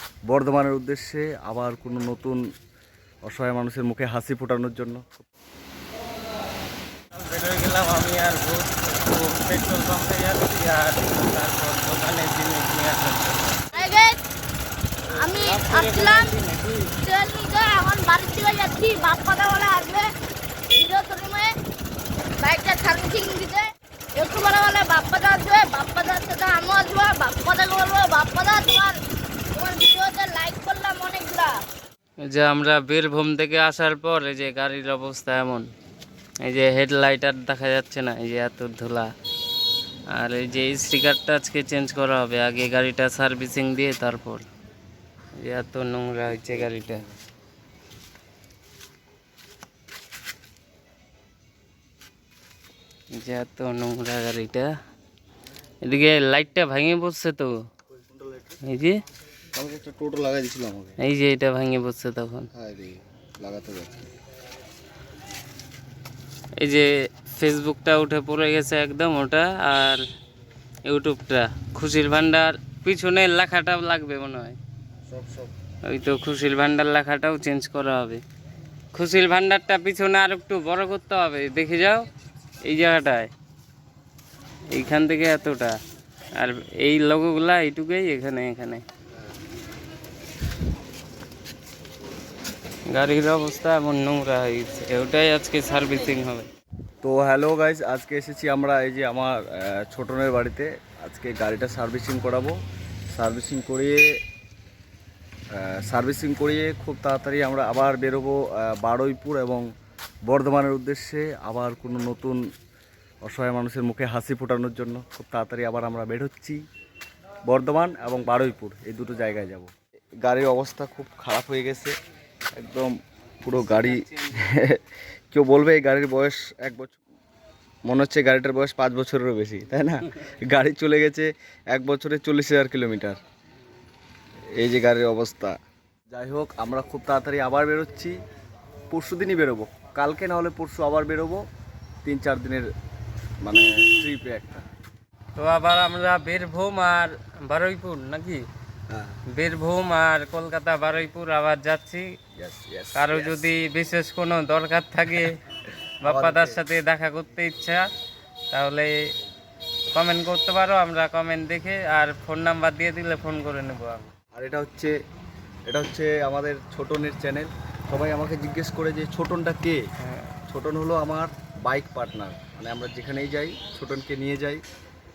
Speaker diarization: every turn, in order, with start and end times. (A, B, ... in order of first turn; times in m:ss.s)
0:00.3-0:02.4 A
0:03.2-0:05.2 A
0:07.1-0:13.8 B
0:13.7-0:14.2 C
0:15.1-0:16.3 C
0:15.1-0:16.9 B
0:17.0-0:20.1 C
0:20.7-0:21.6 C
0:22.4-0:29.0 C
0:29.5-0:31.6 C
0:32.2-0:35.7 B
0:36.4-0:39.1 B
0:40.1-0:44.4 B
0:45.4-0:47.0 B
0:46.5-0:46.9 A
0:53.1-0:54.7 B
0:55.8-0:57.6 B
0:58.0-0:58.6 A
0:58.6-0:59.0 B
0:59.5-1:01.0 A
1:01.0-1:02.5 B
1:02.5-1:04.1 A
1:06.6-1:10.0 B
1:10.8-1:14.6 B
1:15.1-1:15.5 A
1:15.8-1:18.2 B
1:18.9-1:22.1 B
1:22.6-1:23.3 B
1:24.7-1:25.8 B
1:26.3-1:28.8 B
1:32.9-1:36.5 B
1:37.0-1:42.6 A
1:43.1-1:44.0 A
1:45.5-1:49.6 A
1:50.2-1:52.4 A
1:53.2-1:56.6 A
1:57.4-1:59.7 A
2:00.2-2:01.9 A
2:02.6-2:02.9 A
2:03.4-2:07.0 A
2:03.6-2:04.4 B
2:07.9-2:13.2 A
2:14.6-2:15.6 A
2:16.1-2:18.2 A
2:18.9-2:21.4 A
2:22.0-2:22.7 A
2:23.4-2:24.6 A
2:25.4-2:28.4 B
2:28.9-2:29.2 A
2:29.3-2:32.0 B
2:32.4-2:33.5 A
2:33.0-2:35.4 B
2:36.0-2:37.9 B
2:36.0-2:36.6 A
2:38.5-2:38.9 B
2:39.9-2:44.1 B
2:44.3-2:44.9 A
2:45.7-2:49.8 A
2:50.0-2:50.4 B
2:50.5-2:54.6 A